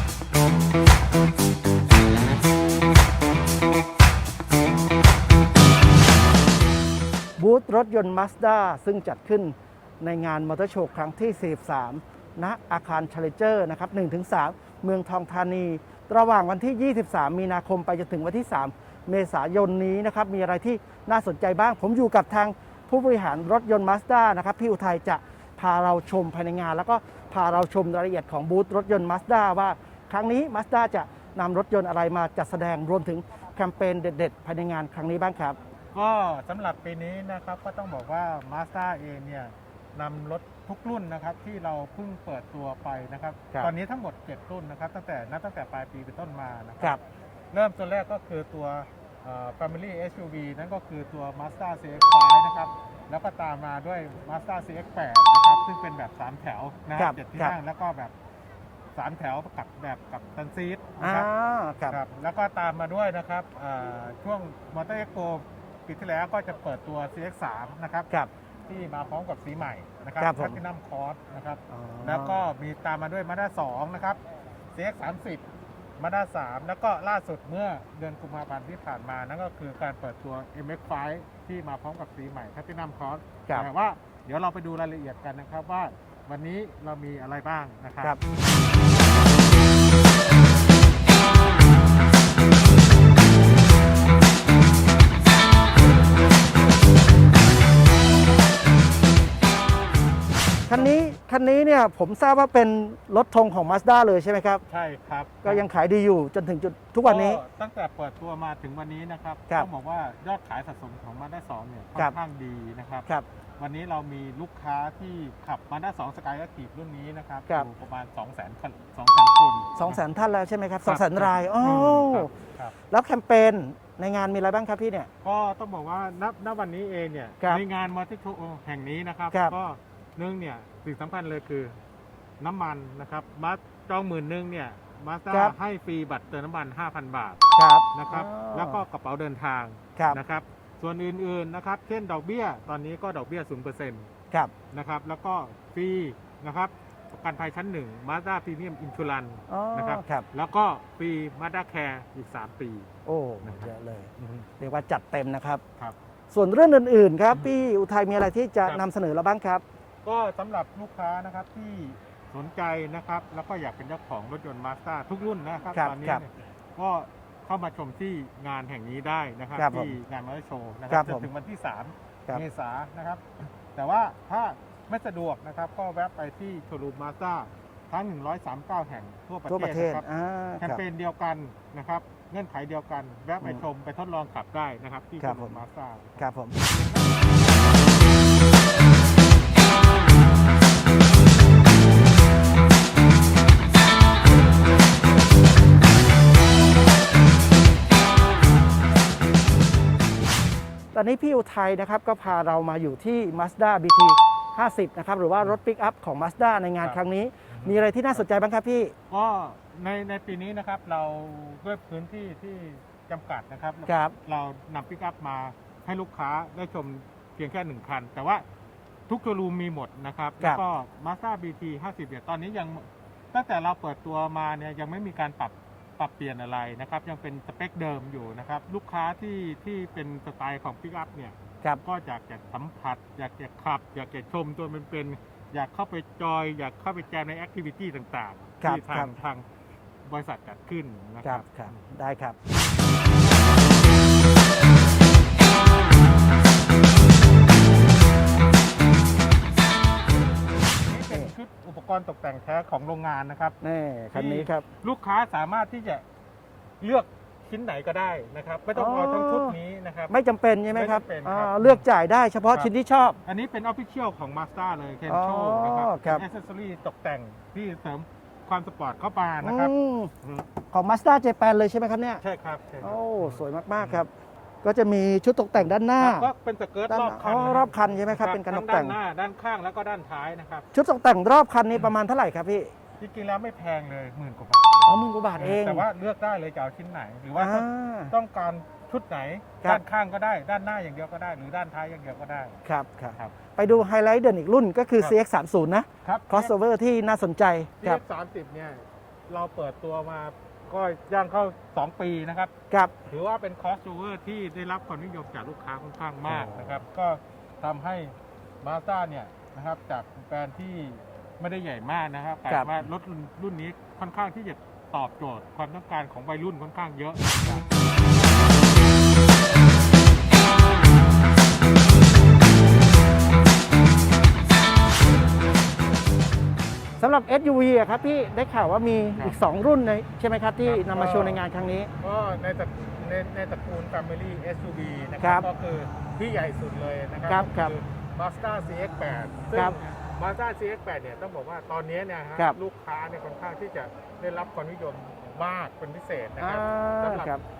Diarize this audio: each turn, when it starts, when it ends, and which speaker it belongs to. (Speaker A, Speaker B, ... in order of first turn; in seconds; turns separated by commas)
Speaker A: 7.4-35.6, Speaker B: 35.9-47.0, Speaker B: 47.5-58.1, Speaker A: 57.0-57.5, Speaker B: 59.0-61.3, Speaker A: 61.0-62.0, Speaker B: 61.9-68.1, Speaker B: 68.7-74.2, Speaker A: 70.2-70.6, Speaker A: 71.7-72.4, Speaker B: 74.7-75.5, Speaker B: 76.0-88.2, Speaker A: 100.7-104.6, Speaker B: 104.7-105.7, Speaker A: 105.4-107.4, Speaker B: 107.0-120.0, Speaker A: 119.8-122.3, Speaker B: 120.8-122.8, Speaker A: 122.9-125.1, Speaker B: 125.2-131.8, Speaker B: 132.4-137.4, Speaker A: 137.5-138.8, Speaker B: 137.9-144.1, Speaker B: 144.7-152.9, Speaker A: 149.5-150.2, Speaker A: 153.1-155.6, Speaker B: 153.4-154.5, Speaker A: 156.3-159.6, Speaker B: 160.0-180.0, Speaker A: 165.7-166.2, Speaker A: 169.5-169.9, Speaker A: 170.9-171.3, Speaker A: 179.5-180.8, Speaker B: 180.6-187.2, Speaker A: 185.2-185.6, Speaker A: 186.2-186.6, Speaker A: 200.9-208.9, Speaker B: 207.5-208.2, Speaker B: 209.1-218.4, Speaker A: 213.8-214.2, Speaker B: 219.1-239.4, Speaker A: 238.6-239.1, Speaker B: 240.0-241.9, Speaker A: 241.2-242.4, Speaker B: 250.8-253.6, Speaker A: 253.6-254.6, Speaker B: 254.1-256.1, Speaker B: 256.8-260.1, Speaker A: 258.7-259.6, Speaker A: 260.1-263.2, Speaker B: 260.7-261.8, Speaker B: 263.2-270.5, Speaker A: 265.1-266.2, Speaker A: 269.4-270.1, Speaker A: 270.7-272.2, Speaker B: 272.2-274.1, Speaker A: 272.8-274.1, Speaker A: 274.6-276.3, Speaker B: 275.6-280.7, Speaker A: 276.9-279.0, Speaker A: 280.7-282.7, Speaker B: 283.0-292.6, Speaker A: 284.9-285.9, Speaker A: 287.3-288.1, Speaker A: 292.6-298.0, Speaker B: 293.1-293.8, Speaker B: 296.0-296.5, Speaker B: 297.8-302.5, Speaker B: 303.1-317.6, Speaker A: 306.3-306.8, Speaker A: 327.0-331.9, Speaker B: 330.6-331.4, Speaker B: 332.0-347.4, Speaker A: 335.2-335.4, Speaker A: 337.3-337.7, Speaker A: 346.4-347.4